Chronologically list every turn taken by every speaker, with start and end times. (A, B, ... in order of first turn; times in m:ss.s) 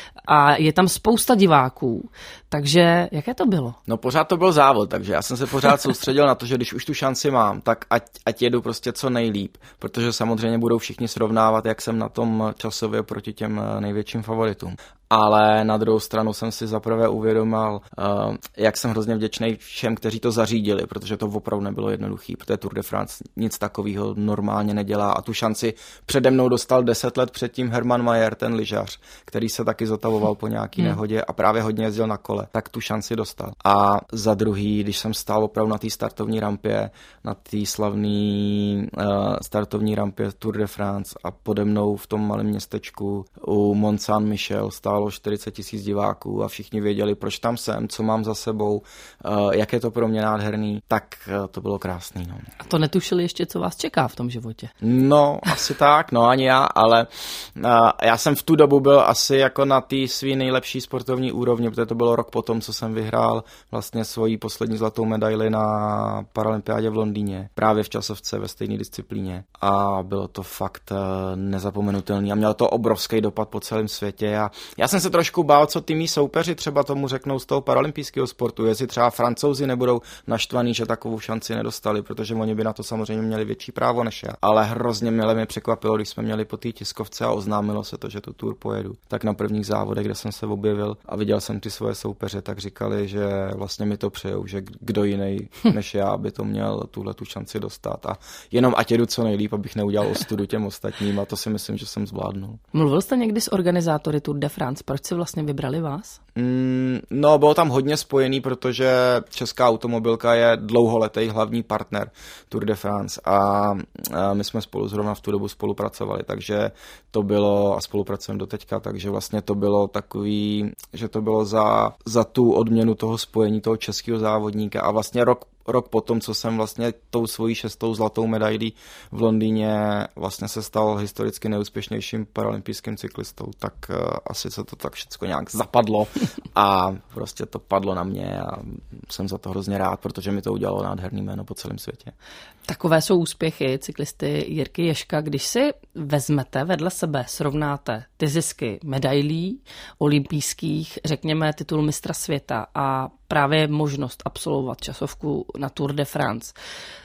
0:00.2-0:03.8 A
0:03.9-0:52.5 B
0:52.6-0:54.7 A
0:54.8-1:42.6 B
1:42.7-1:46.2 A
1:46.3-2:22.1 B
2:22.7-2:36.5 A